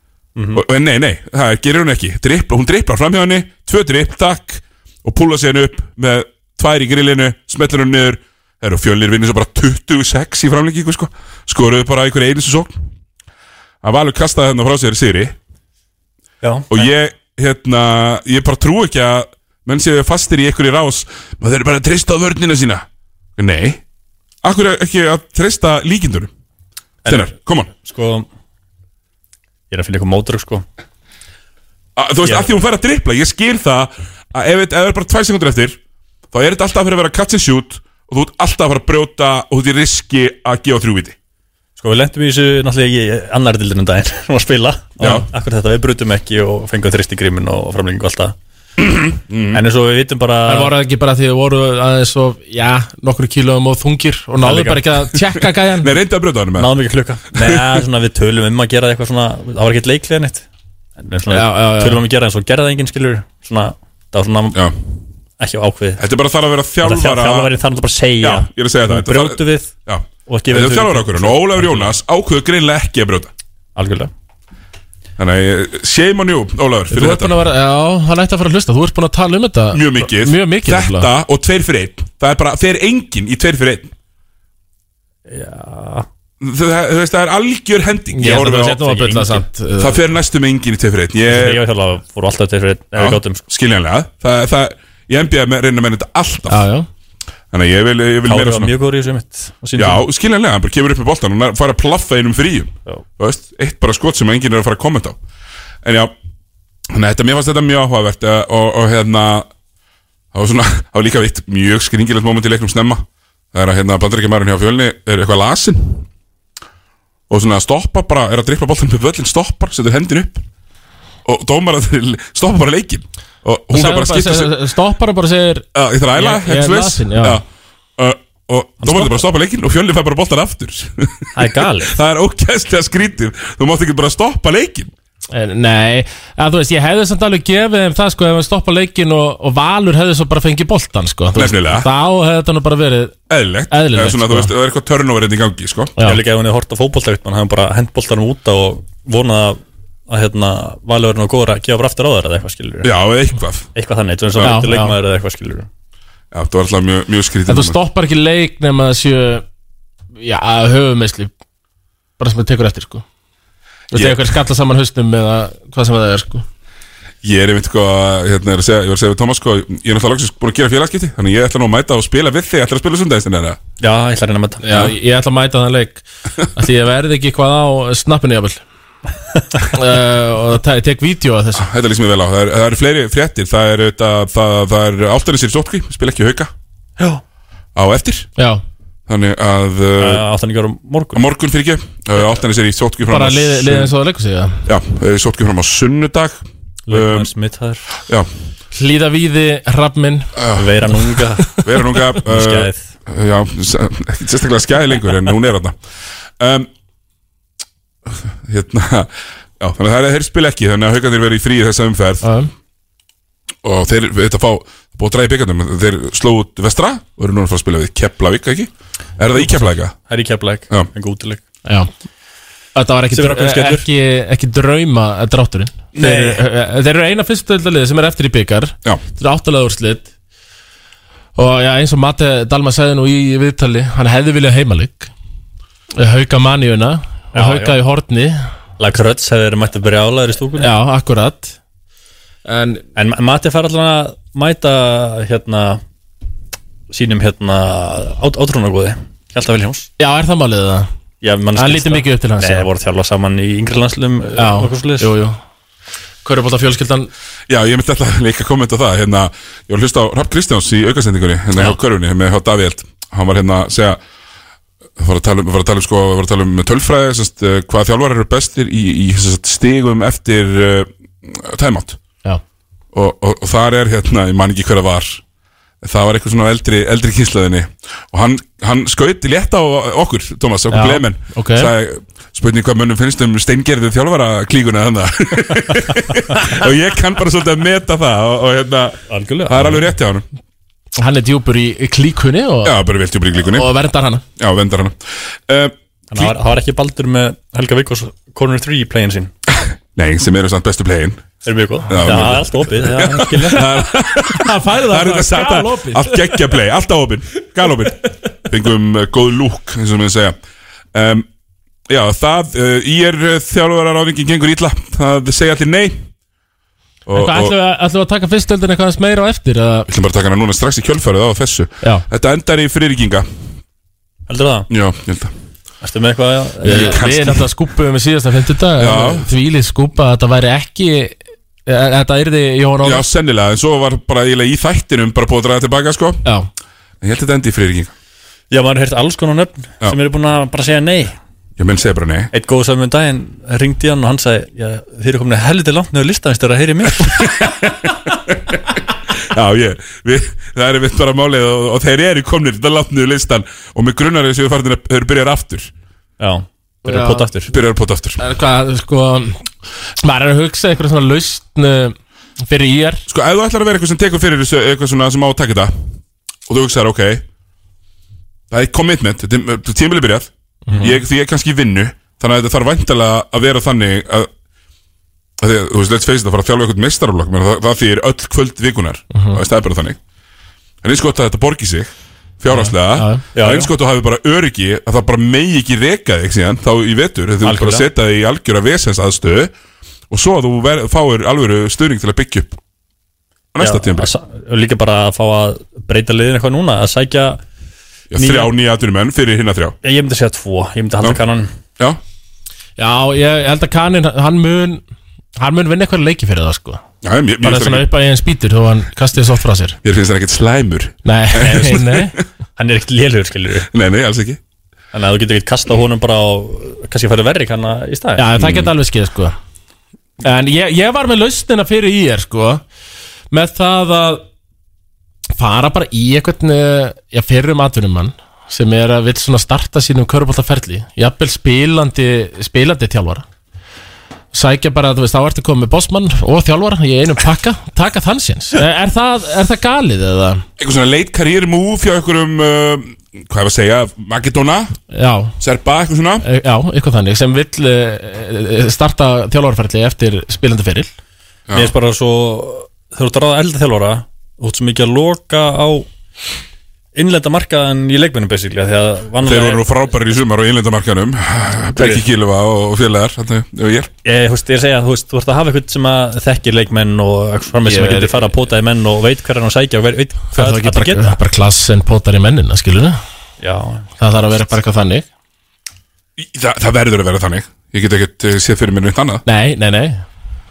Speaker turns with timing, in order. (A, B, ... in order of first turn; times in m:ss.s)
0:00.4-0:00.6 A
0:00.5-0:12.7 B
0:13.8-0:15.4 B
0:16.4-0:16.8 A
0:16.7-0:22.8 B
0:23.4-0:23.8 B
0:24.4-0:26.3 B
0:27.0-0:28.2 A
0:27.1-0:27.7 B
0:29.7-0:30.6 A
0:32.0-0:35.8 B
0:36.3-0:41.2 B
0:41.8-0:48.3 A
0:45.0-0:45.3 B
0:48.8-0:49.6 B
0:49.5-0:50.7 A
0:50.5-0:55.9 C
0:54.4-0:54.8 A
0:55.8-0:56.7 B
0:56.6-1:00.4 A
0:57.4-0:57.7 B
1:01.0-1:04.6 A
1:01.3-1:02.0 C
1:05.4-1:06.0 A
1:06.0-1:07.5 B
1:06.8-1:09.7 A
1:08.2-1:13.3 B
1:10.2-1:11.9 A
1:13.8-1:14.1 A
1:15.2-1:17.4 B
1:16.9-1:21.1 C
1:19.7-1:23.9 B
1:25.3-1:26.1 A
1:26.4-1:28.8 B
1:28.1-1:30.0 C
1:28.8-1:29.4 A
1:29.8-1:31.6 B
1:31.3-1:33.4 A
1:32.9-1:36.6 B
1:36.5-1:36.9 C
1:37.5-1:38.7 B
1:38.2-1:40.0 A
1:39.8-1:45.2 B
1:45.8-1:46.1 B
1:46.9-1:49.5 B
1:50.3-1:56.1 B
1:57.3-2:00.4 B
2:01.2-2:04.5 B
2:03.7-2:07.4 C
2:05.7-2:07.4 B
2:08.0-2:14.9 B
2:08.8-2:09.2 A
2:11.3-2:11.9 A
2:15.3-2:23.2 C
2:21.3-2:21.9 B
2:23.3-2:25.9 B
2:23.7-2:24.5 C
2:26.0-2:32.9 A
2:32.8-2:33.7 B
2:33.7-2:35.7 A
2:34.4-2:35.0 C
2:36.3-2:37.8 B
2:37.5-2:39.4 C
2:40.2-2:41.3 C
2:42.2-2:43.0 C
2:43.9-2:46.4 C
2:47.2-2:53.6 B
2:53.8-2:54.8 A
2:54.6-2:58.6 C
2:59.7-3:01.6 C
3:01.6-3:06.5 B
3:07.7-3:08.3 B
3:08.4-3:08.6 C
3:09.1-3:10.2 B
3:10.0-3:11.2 A
3:11.1-3:13.9 B
3:13.1-3:14.6 C
3:14.6-3:17.3 B
3:16.9-3:17.8 A
3:18.7-3:20.3 C
3:20.4-3:20.9 B
3:20.5-3:21.6 A
3:21.6-3:25.8 B
3:22.2-3:22.8 A
3:26.4-3:26.7 B
3:28.1-3:32.2 B
3:32.2-3:32.5 C
3:33.6-3:40.0 B
3:39.4-3:41.4 A
3:42.7-3:50.1 C
3:43.1-3:43.8 A
3:45.9-3:46.4 A
3:51.4-3:55.1 C
3:56.0-3:58.4 C
3:57.3-3:57.8 A
3:58.8-4:00.7 A
4:00.6-4:01.6 C
4:02.5-4:02.8 C
4:03.0-4:05.8 A
4:06.9-4:09.9 A
4:10.0-4:10.9 C
4:11.2-4:15.1 A
4:11.6-4:12.7 C
4:14.4-4:15.4 C
4:16.2-4:17.1 C
4:17.5-4:24.0 B
4:25.0-4:32.0 B
4:32.9-4:35.2 B
4:35.8-4:50.2 B
4:40.7-4:41.7 C
4:49.1-4:49.8 A
4:51.0-4:52.8 C
4:52.6-4:53.7 B
4:53.5-4:54.2 C
4:54.4-4:56.3 B
4:56.1-4:59.3 A
4:59.9-5:01.3 B
5:01.4-5:03.7 A
5:01.9-5:10.4 B
5:04.2-5:06.4 C
5:10.9-5:11.3 B
5:11.9-5:16.0 B
5:17.1-5:17.6 B
5:17.1-5:19.9 C
5:19.9-5:23.2 B
5:24.3-5:24.7 A
5:24.7-5:25.3 B
5:25.8-5:27.0 A
5:26.6-5:33.0 C
5:26.7-5:27.4 B
5:28.8-5:29.3 B
5:32.8-5:36.2 B
5:37.0-5:37.9 B
5:38.5-5:41.1 A
5:41.6-5:42.3 B
5:42.3-5:47.3 A
5:47.2-5:48.6 B
5:49.2-5:55.7 B
5:56.2-5:57.5 A
5:56.8-5:57.3 C
5:57.5-5:58.2 B
5:58.2-5:59.4 C
6:00.0-6:03.0 C
6:03.1-6:05.9 B
6:06.5-6:07.2 B
6:08.5-6:14.3 B
6:10.7-6:10.9 A
6:15.4-6:20.0 B
6:20.8-6:29.5 B
6:22.5-6:23.2 C
6:23.3-6:23.7 A
6:27.4-6:27.8 A
6:30.1-6:32.6 B
6:33.5-6:34.1 B
6:33.6-6:37.4 A
6:38.1-6:39.8 B
6:38.1-6:38.5 A
6:39.8-6:41.5 A
6:42.8-6:44.8 C
6:45.4-6:46.8 C
6:47.0-6:47.9 B
6:47.4-6:49.8 C
6:49.8-6:52.1 B
6:51.0-6:52.2 C
6:51.4-6:51.8 A
6:52.6-6:53.7 A
6:53.7-6:54.4 B
6:54.9-6:58.3 A
6:58.2-6:59.4 C
6:58.4-6:58.7 B
7:00.2-7:02.6 C
7:03.3-7:04.2 C
7:05.4-7:13.2 C
7:14.3-7:20.4 C
7:20.6-7:24.8 B
7:24.9-7:25.3 C
7:25.4-7:26.2 B
7:26.2-7:30.9 C
7:31.5-7:35.9 A
7:36.9-7:39.6 A
7:39.2-7:43.9 B
7:41.8-7:42.0 A
7:44.0-7:51.2 A
7:47.6-7:48.3 C
7:50.3-7:53.0 C
7:53.4-7:53.9 A
7:54.0-7:55.0 C
7:56.2-7:59.2 B
7:59.2-8:00.0 C